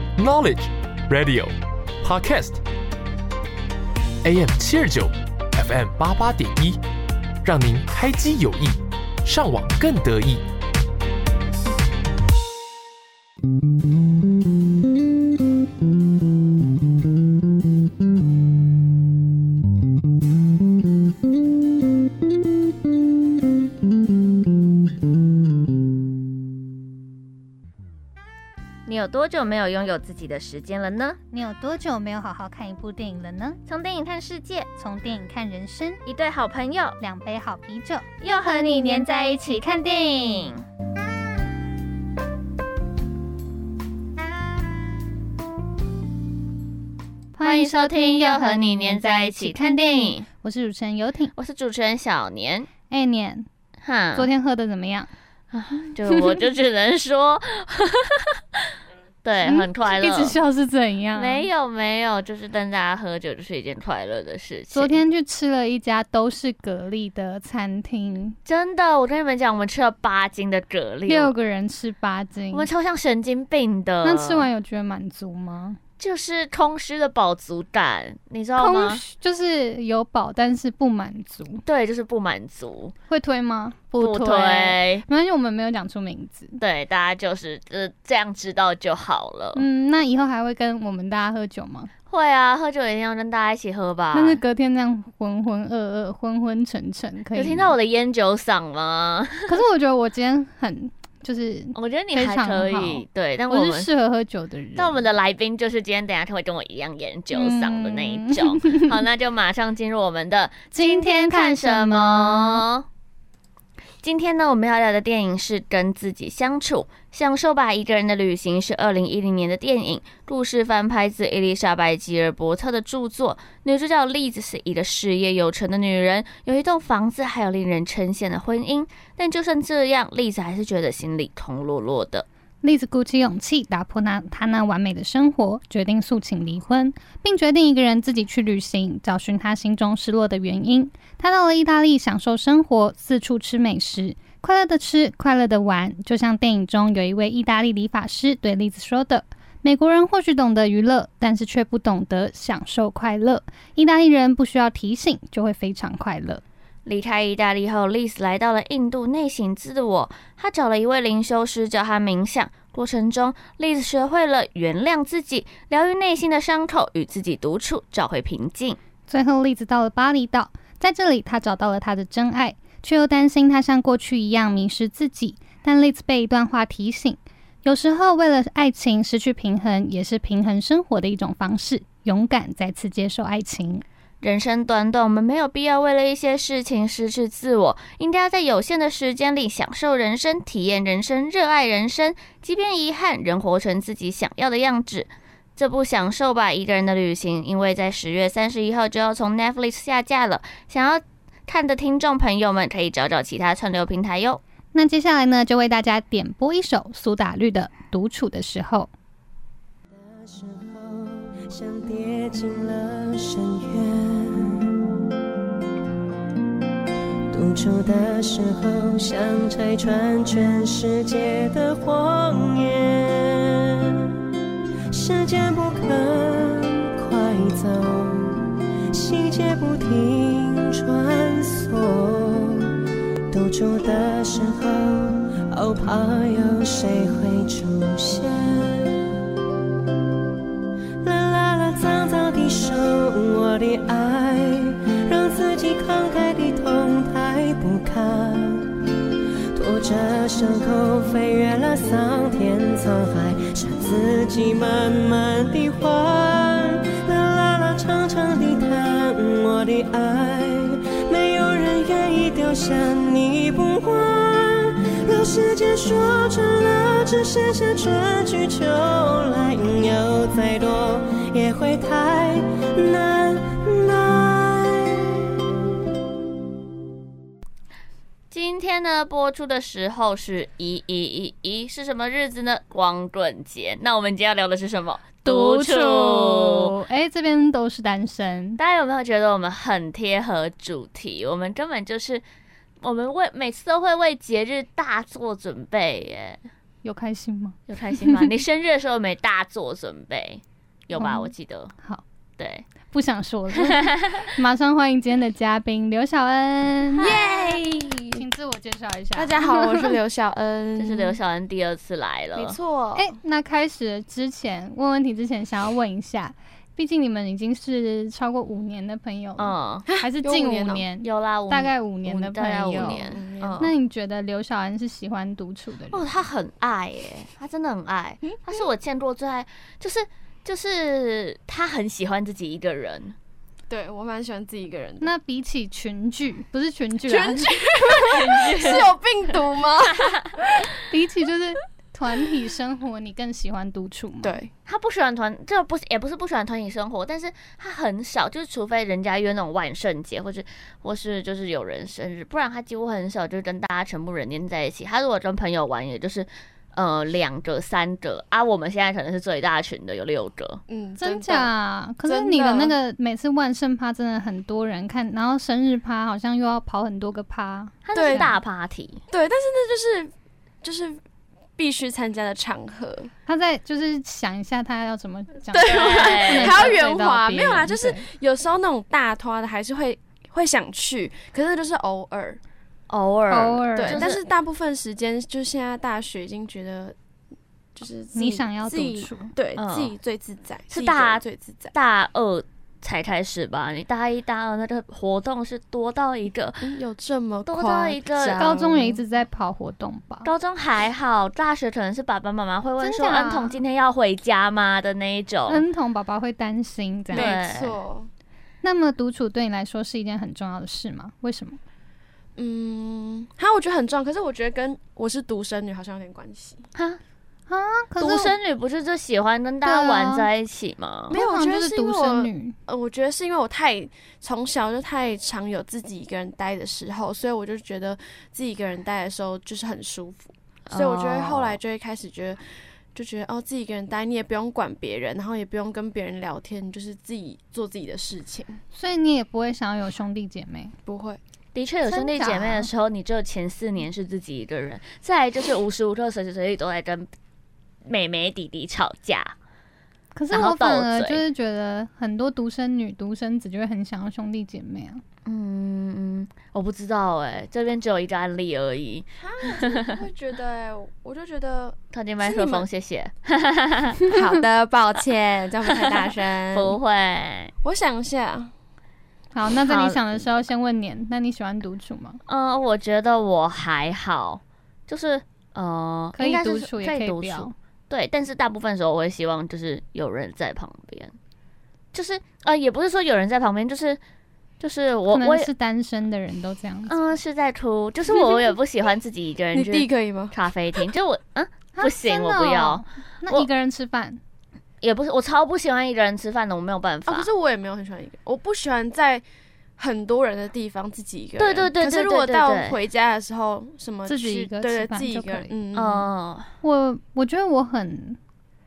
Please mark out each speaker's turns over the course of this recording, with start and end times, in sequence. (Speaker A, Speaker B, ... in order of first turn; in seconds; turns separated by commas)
Speaker A: 0.2-2.6, Speaker A: 4.2-6.8, Speaker A: 7.4-10.4, Speaker B: 28.9-31.2, Speaker C: 31.3-33.6, Speaker B: 33.7-34.7, Speaker C: 34.8-36.0, Speaker B: 36.0-37.0, Speaker C: 37.0-38.1, Speaker B: 38.2-40.6, Speaker C: 47.4-51.3, Speaker B: 47.4-50.2, Speaker B: 51.3-52.7, Speaker C: 52.9-53.5, Speaker B: 53.8-54.3, Speaker C: 54.1-55.1, Speaker B: 55.5-58.6, Speaker C: 55.8-56.4, Speaker B: 59.2-60.4, Speaker C: 59.4-61.5, Speaker B: 61.1-65.0, Speaker C: 64.7-68.4, Speaker B: 68.5-71.3, Speaker C: 71.1-72.7, Speaker B: 72.5-74.5, Speaker C: 74.0-75.8, Speaker B: 76.0-79.0, Speaker C: 78.6-81.6, Speaker B: 81.6-82.9, Speaker C: 83.1-86.6, Speaker B: 84.0-85.0, Speaker B: 86.6-89.6, Speaker C: 89.5-91.9, Speaker B: 92.1-94.4, Speaker C: 94.1-97.7, Speaker B: 97.3-99.6, Speaker C: 99.5-105.0, Speaker B: 101.7-103.9, Speaker B: 104.8-112.8, Speaker C: 107.3-109.0, Speaker C: 110.7-112.6, Speaker B: 114.0-132.2, Speaker C: 132.6-156.4, Speaker B: 156.8-168.8, Speaker C: 169.1-183.8, Speaker B: 184.2-204.4, Speaker C: 204.7-208.9, Speaker D: 209.9-214.7, Speaker D: 217.3-224.1, Speaker D: 224.9-232.8, Speaker D: 233.3-239.1, Speaker D: 241.0-248.8, Speaker D: 249.5-275.4, Speaker B: 278.3-286.7, Speaker C: 285.2-288.6, Speaker B: 288.6-292.2, Speaker B: 292.8-296.4, Speaker C: 296.8-298.2, Speaker B: 297.7-301.7, Speaker C: 300.9-301.3, Speaker B: 302.4-302.6, Speaker C: 302.9-307.1, Speaker B: 303.6-304.2, Speaker B: 307.0-307.8, Speaker E: 307.0-308.2, Speaker C: 308.1-309.9, Speaker E: 309.1-311.2, Speaker B: 310.8-312.6, Speaker E: 312.3-313.1, Speaker C: 312.9-323.0, Speaker B: 319.4-319.8, Speaker E: 319.9-320.9, Speaker B: 321.0-323.6, Speaker E: 322.8-323.7, Speaker C: 323.6-326.1, Speaker B: 325.9-333.1, Speaker E: 333.7-335.1, Speaker C: 335.0-337.5, Speaker E: 337.1-340.7, Speaker B: 337.9-338.9, Speaker C: 340.9-344.4, Speaker E: 344.2-344.5, Speaker B: 344.7-360.6, Speaker E: 360.7-361.5, Speaker C: 361.0-368.2, Speaker E: 362.0-362.7, Speaker B: 367.8-369.0, Speaker E: 367.9-368.4, Speaker E: 369.1-370.1, Speaker E: 370.6-371.0, Speaker E: 371.6-373.1, Speaker C: 373.3-378.0, Speaker E: 375.5-382.4, Speaker B: 375.6-376.7, Speaker B: 382.9-384.2, Speaker C: 383.3-384.1, Speaker E: 383.8-386.9, Speaker E: 387.7-391.7, Speaker C: 388.1-389.3, Speaker B: 389.6-389.9, Speaker B: 390.7-396.7, Speaker E: 396.6-399.0, Speaker B: 397.4-398.5, Speaker C: 398.4-400.3, Speaker B: 400.2-405.6, Speaker C: 402.8-403.6, Speaker C: 405.5-407.3, Speaker E: 407.1-408.1, Speaker B: 407.1-407.8, Speaker C: 408.6-411.6, Speaker E: 412.4-416.6, Speaker C: 417.5-418.3, Speaker B: 418.0-421.1, Speaker C: 419.6-420.3, Speaker C: 421.1-422.6, Speaker E: 421.1-432.4, Speaker B: 430.7-431.6, Speaker E: 432.9-438.6, Speaker C: 438.7-440.8, Speaker E: 440.9-441.2, Speaker B: 441.5-447.1, Speaker C: 441.9-442.7, Speaker B: 447.9-449.3, Speaker C: 450.1-455.0, Speaker B: 450.3-451.2, Speaker B: 455.2-459.8, Speaker E: 459.2-462.6, Speaker B: 461.9-464.1, Speaker E: 464.1-466.7, Speaker B: 465.8-467.5, Speaker E: 467.6-468.5, Speaker C: 469.3-472.2, Speaker B: 469.6-470.2, Speaker B: 472.3-481.1, Speaker C: 476.2-477.5, Speaker B: 481.9-484.0, Speaker B: 484.6-485.5, Speaker C: 485.1-486.9, Speaker B: 486.9-493.5, Speaker E: 488.1-488.5, Speaker E: 489.5-490.3, Speaker C: 491.8-494.2, Speaker B: 494.8-497.3, Speaker E: 497.1-499.2, Speaker E: 499.8-506.1, Speaker B: 501.4-502.8, Speaker C: 504.1-505.5, Speaker B: 505.7-506.5, Speaker C: 506.6-508.2